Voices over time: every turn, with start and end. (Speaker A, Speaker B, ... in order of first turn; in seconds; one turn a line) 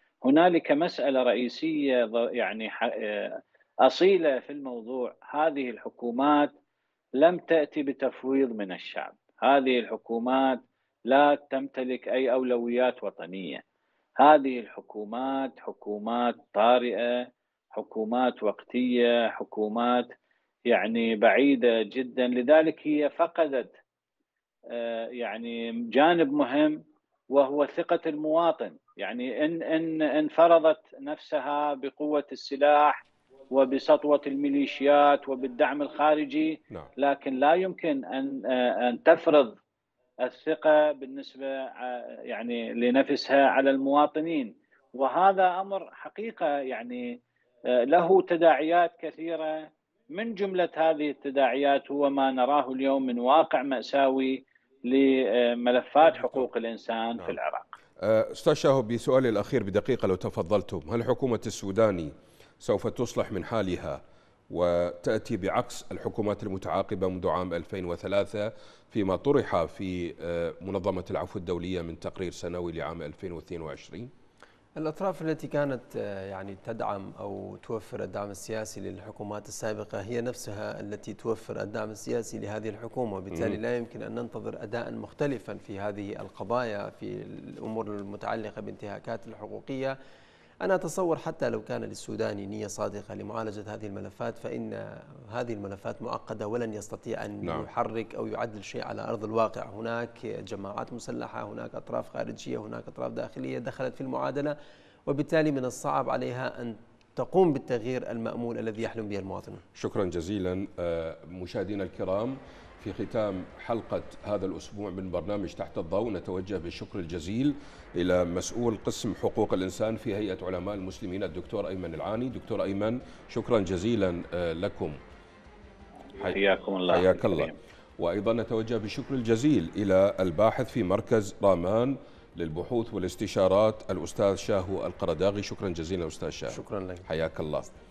Speaker A: 0.2-6.5
Speaker A: 7.2-13.6
Speaker A: 14.2-20.1
Speaker A: 20.7-23.7
Speaker A: 24.7-26.8
Speaker A: 27.3-39.5
Speaker A: 40.2-47.1
Speaker A: 47.7-49.6
Speaker A: 50.1-57.7
Speaker B: 56.0-56.5
Speaker B: 58.0-74.1
Speaker C: 74.8-89.9
Speaker B: 83.3-83.6
Speaker C: 90.6-104.5
Speaker C: 105.1-109.6
Speaker B: 109.8-125.0
Speaker B: 126.2-137.7
Speaker A: 126.2-127.5
Speaker C: 136.5-137.1